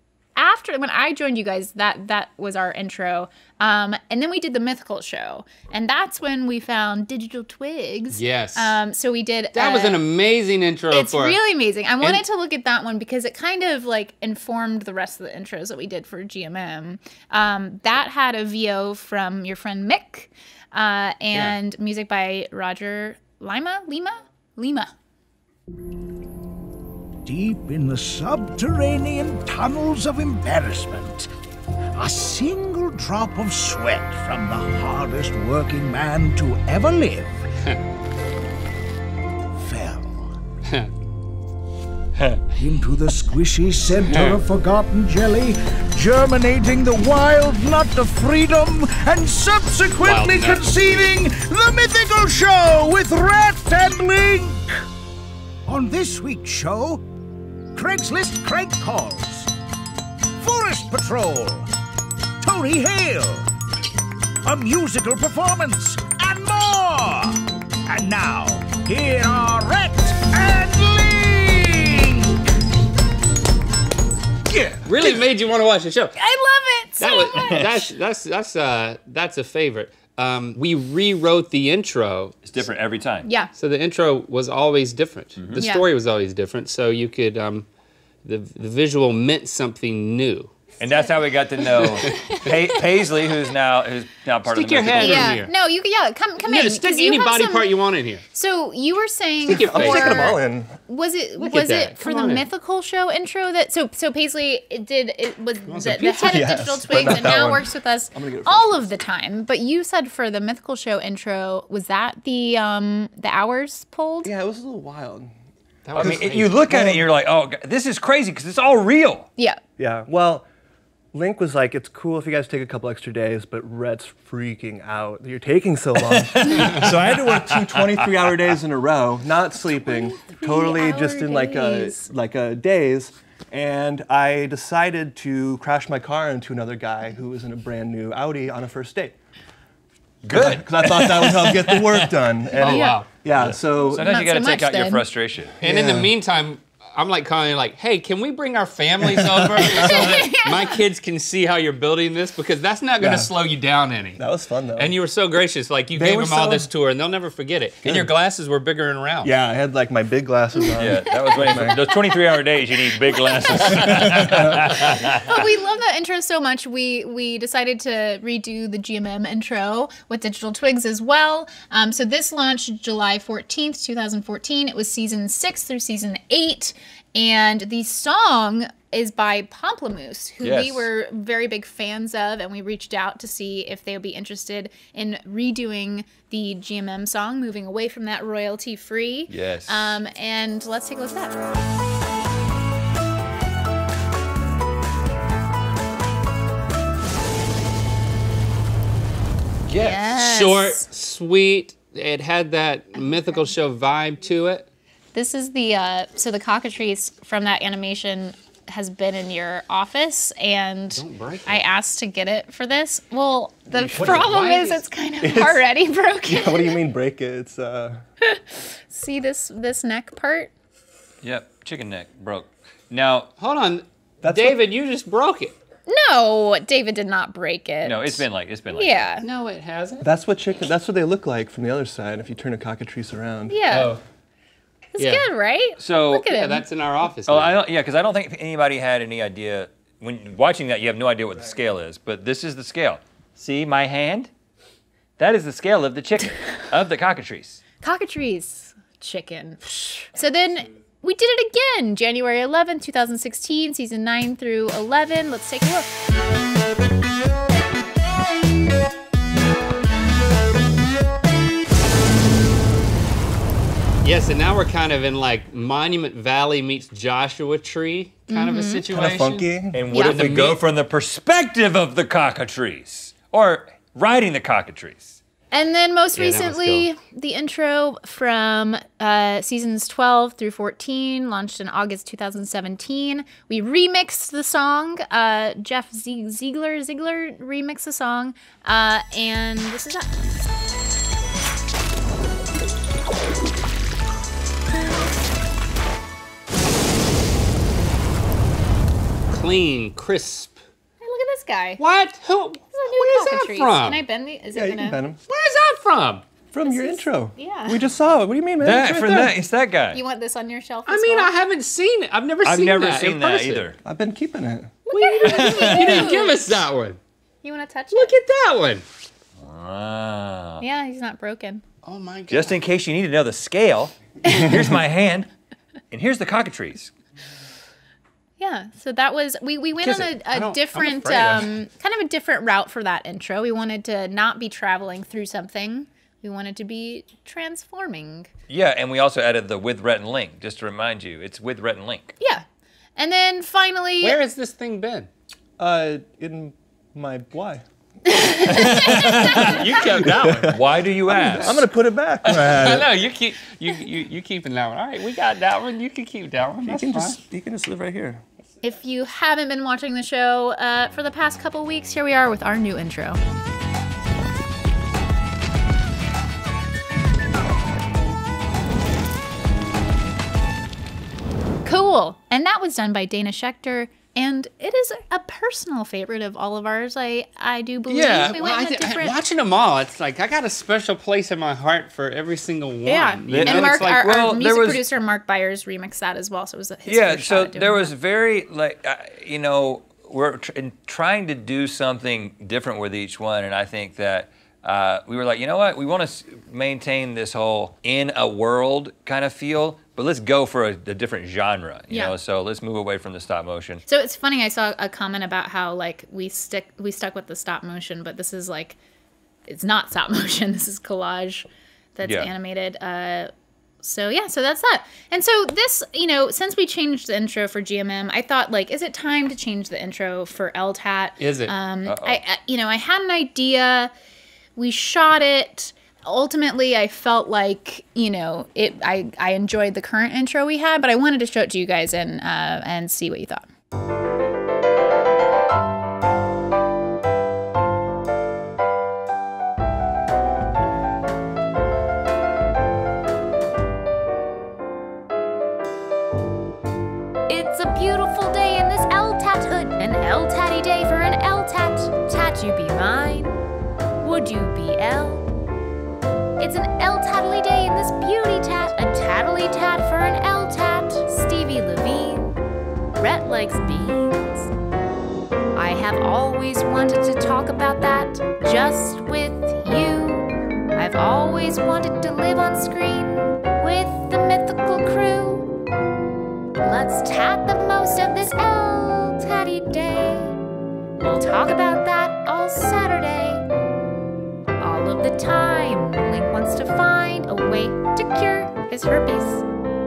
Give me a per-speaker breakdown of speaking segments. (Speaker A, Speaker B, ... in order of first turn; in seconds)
Speaker A: 0.3-10.0, 10.9-24.9, 76.2-77.7, 83.2-83.5, 85.5-85.8, 95.0-97.7, 98.3-114.3, 129.8-132.1, 142.6-143.0, 143.8-145.0, 149.6-150.8, 165.2-191.4, 199.8-200.8, 205.1-216.8, 218.2-220.5, 225.9-229.2, 233.5-233.9, 234.9-236.6, 247.8-255.9, 268.3-268.8, 269.9-270.2, 275.5-290.4, 301.0-301.8, 302.7-305.0, 306.6-307.9, 309.9-311.3, 314.9-316.4, 317.4-318.1, 320.6-321.6, 328.4-338.3, 342.2-342.4, 343.0-344.2, 348.1-349.0, 358.6-363.2, 371.6-379.2, 382.9-387.9, 403.9-408.8, 409.5-413.3, 413.8-423.9, 424.6-433.4, 447.3-453.3, 454.0-455.3, 456.4-462.3, 463.0-464.5, 465.5-475.5, 476.6-480.4, 481.0-483.4, 484.6-489.4
Speaker B: 8.1-8.8, 9.5-11.4, 44.1-44.4, 50.0-51.0, 74.8-76.1, 77.0-82.4, 83.5-87.7, 88.2-90.5, 94.5-95.5, 96.4-98.2, 99.5-100.4, 101.4-102.5, 105.7-106.6, 115.8-116.6, 142.6-143.1, 145.6-154.2, 154.8-159.3, 200.1-204.7, 210.9-211.6, 213.8-214.8, 223.4-225.6, 229.2-230.1, 233.7-234.0, 235.0-235.2, 236.3-237.6, 264.0-270.6, 276.1-276.9, 299.3-300.6, 301.8-304.0, 305.3-306.2, 310.9-313.6, 314.9-317.0, 317.9-318.8, 321.8-322.5, 330.3-331.6, 344.0-345.1, 349.4-350.5, 352.2-357.2, 377.9-384.0, 421.2-421.5
Speaker C: 27.2-31.3, 31.9-37.4, 39.5-40.3, 42.6-54.8, 55.6-57.0, 57.7-59.5, 60.4-61.7, 62.4-63.5, 64.4-72.4, 74.5-74.8
Speaker D: 82.4-83.3, 90.8-95.4, 107.0-107.3, 115.9-119.3, 126.1-127.8, 140.2-142.1, 143.4-145.5, 160.8-165.4, 180.4-180.9, 189.3-190.0, 199.7-200.0, 214.0-214.2, 221.2-223.3, 227.8-229.1, 235.8-236.3, 237.3-244.3, 245.2-247.6, 269.7-275.2, 308.6-310.0, 312.4-313.8, 315.2-316.2, 319.4-320.6, 322.3-325.3, 325.9-326.9, 338.5-342.1, 348.5-351.7, 383.3-384.8, 386.9-403.8, 412.0-412.3, 421.8-422.2
Speaker E: 99.4-100.7, 106.3-108.9, 114.2-115.3, 115.9-117.0, 119.8-120.5, 121.1-139.1, 140.3-144.2, 145.6-146.1, 149.0-150.1, 153.0-153.3, 154.2-154.9, 155.9-156.7, 157.8-158.1, 159.2-161.9, 163.7-164.9, 215.2-215.6, 216.2-218.0, 224.2-224.6, 230.0-233.8, 268.9-269.8, 304.5-305.2, 306.5-309.4, 313.8-314.8, 345.6-347.6, 348.6-352.9, 356.6-358.2